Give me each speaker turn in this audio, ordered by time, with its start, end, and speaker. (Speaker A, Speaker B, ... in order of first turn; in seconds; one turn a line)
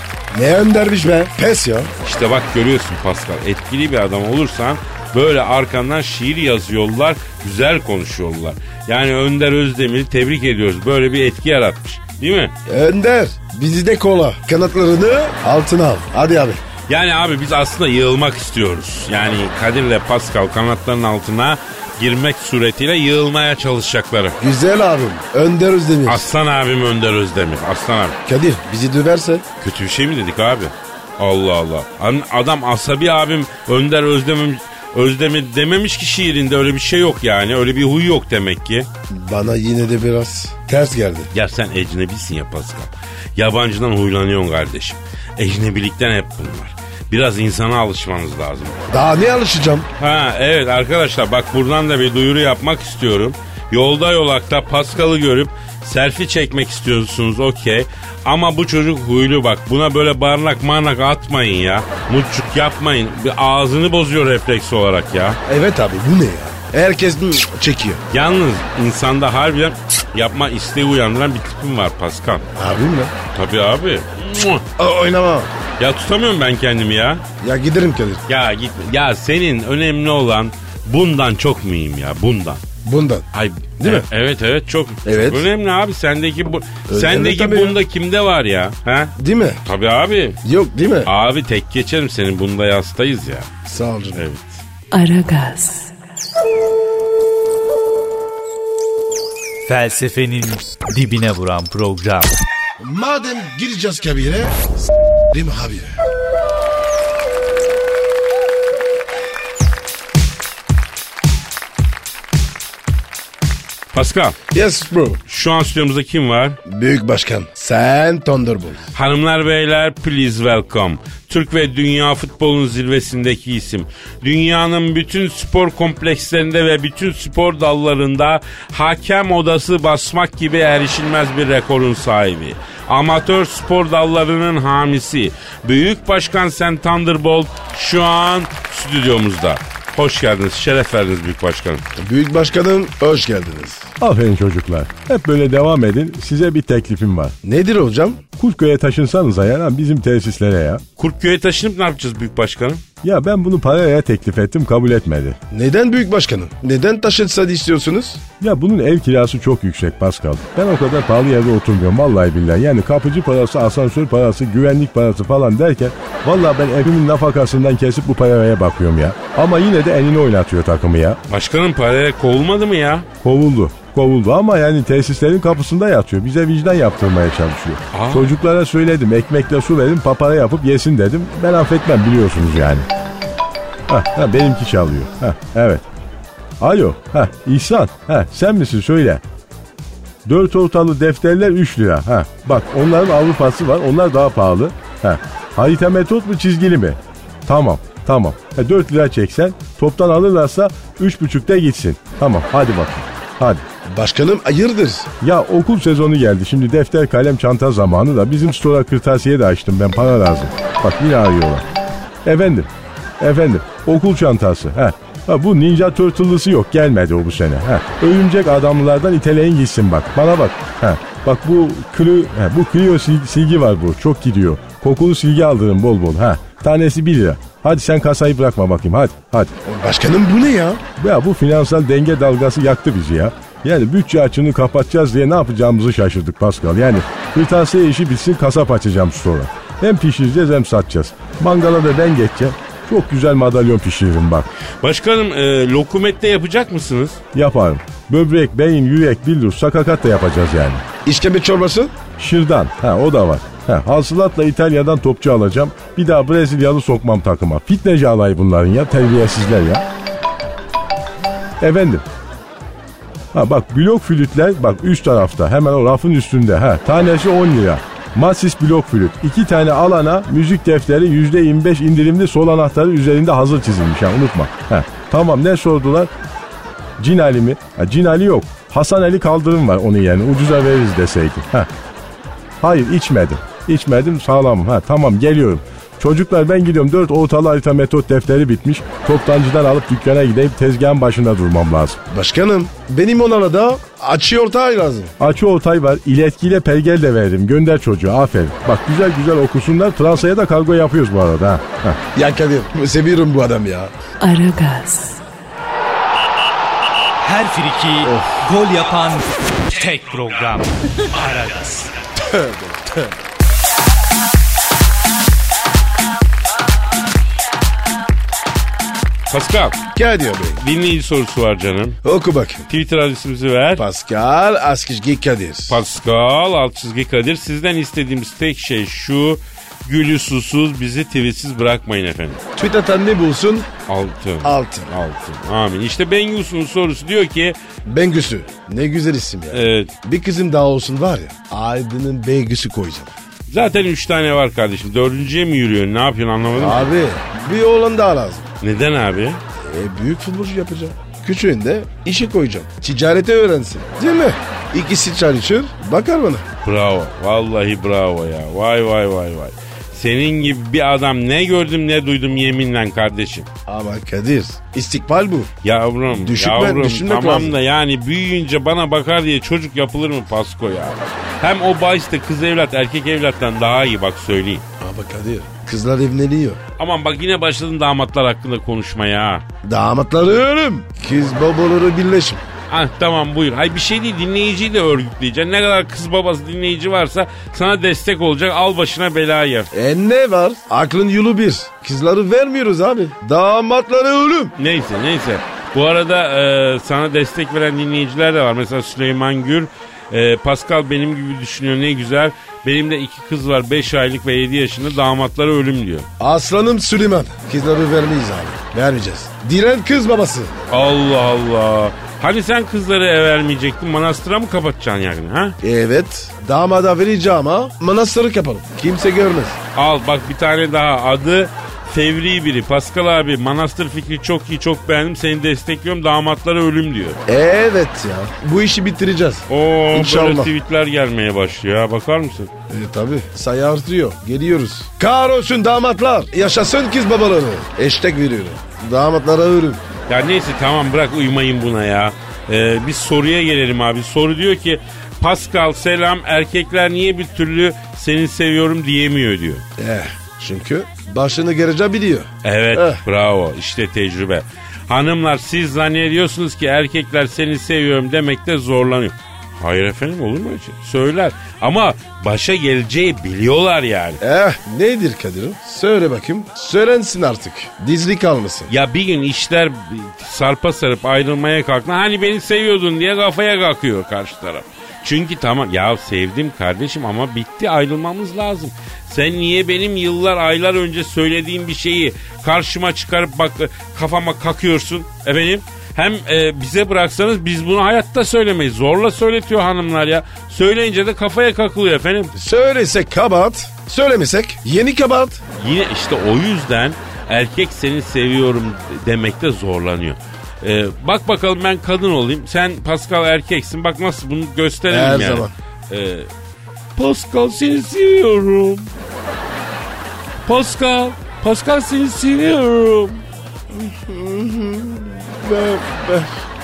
Speaker A: 0.3-1.9
Speaker B: 2.0-12.5
Speaker A: 12.7-16.6
Speaker B: 16.9-24.4
Speaker A: 24.4-26.3
Speaker B: 26.1-28.2
Speaker A: 28.2-29.4
Speaker B: 29.6-38.9
Speaker A: 39.1-41.3
Speaker B: 41.3-48.9
Speaker A: 48.9-49.9
Speaker B: 50.0-65.4
Speaker A: 65.5-68.0
Speaker B: 68.1-72.5
Speaker A: 72.6-73.1
Speaker B: 73.3-74.6
Speaker A: 74.8-75.5
Speaker B: 75.8-77.2
Speaker A: 77.4-78.2
Speaker B: 78.3-82.6
Speaker A: 82.8-83.3
Speaker B: 83.3-89.1
Speaker A: 83.8-84.1
Speaker A: 85.0-85.5
Speaker A: 86.9-87.8
Speaker A: 89.2-89.6
Speaker B: 89.6-90.4
Speaker A: 90.4-91.1
Speaker B: 91.1-93.5
Speaker A: 93.7-94.2
Speaker B: 94.1-94.6
Speaker C: 94.9-95.9
Speaker D: 99.7-102.3
Speaker A: 102.8-104.6
Speaker A: 105.3-105.9
Speaker B: 113.9-114.4
Speaker A: 114.5-115.2
Speaker B: 115.3-116.6
Speaker A: 116.7-118.9
Speaker B: 118.9-141.8
Speaker A: 141.9-143.9
Speaker E: 144.0-147.3
Speaker A: 147.4-148.2
Speaker E: 148.4-150.8
Speaker B: 151.0-152.8
Speaker E: 153.0-155.4
Speaker A: 155.5-158.2
Speaker E: 158.4-171.2
Speaker B: 171.3-173.1
Speaker E: 173.2-182.8
Speaker B: 177.9-178.4
Speaker E: 183.9-185.8
Speaker E: 186.6-189.2
Speaker E: 190.3-203.6
Speaker A: 203.8-205.1
Speaker E: 205.2-211.6
Speaker E: 212.2-212.7
Speaker E: 213.2-229.5
Speaker A: 229.6-230.8
Speaker E: 231.0-244.5
Speaker B: 244.8-247.2
Speaker E: 247.3-250.8
Speaker A: 251.1-252.0
Speaker E: 252.2-259.8
Speaker E: 261.6-262.0
Speaker E: 263.3-276.1
Speaker E: 277.0-281.7
Speaker E: 282.6-292.0
Speaker A: 292.1-295.1
Speaker E: 295.2-302.0
Speaker A: 302.1-303.9
Speaker C: 304.2-305.2
Speaker D: 307.2-311.9
Speaker A: 308.1-308.4
Speaker A: 312.2-313.1
Speaker B: 319.3-319.8
Speaker A: 319.9-320.6
Speaker B: 320.6-322.0
Speaker A: 322.0-322.7
Speaker B: 322.7-323.8
Speaker A: 323.8-325.8
Speaker B: 325.7-332.4
Speaker A: 332.6-333.7
Speaker B: 333.9-337.6
Speaker A: 334.4-334.9
Speaker A: 337.9-343.1
Speaker B: 339.5-339.9
Speaker B: 343.5-346.9
Speaker A: 346.5-348.5
Speaker B: 348.6-349.4
Speaker A: 349.6-356.5
Speaker B: 356.6-363.5
Speaker A: 363.7-365.5
Speaker B: 365.6-374.6
Speaker A: 366.1-367.6
Speaker A: 374.8-376.6
Speaker B: 376.8-379.4
Speaker A: 379.6-382.4
Speaker B: 382.7-389.7
Speaker A: 389.7-394.5
Speaker B: 394.6-406.1
Speaker A: 406.2-410.6
Speaker B: 410.7-415.6
Speaker A: 415.6-419.6
Speaker B: 419.7-427.2
Speaker A: 427.3-430.5
Speaker B: 429.5-432.5
Speaker A: 432.7-439.8
Speaker B: 440.1-449.6
Speaker A: 449.8-453.0
Speaker B: 452.4-464.2
Speaker A: 464.2-468.7
Speaker B: 468.7-492.3
Speaker A: 492.3-495.4
Speaker B: 495.6-506.3
Speaker A: 504.9-505.5
Speaker B: 506.9-508.9
Speaker B: 510.4-513.2
Speaker A: 513.7-516.4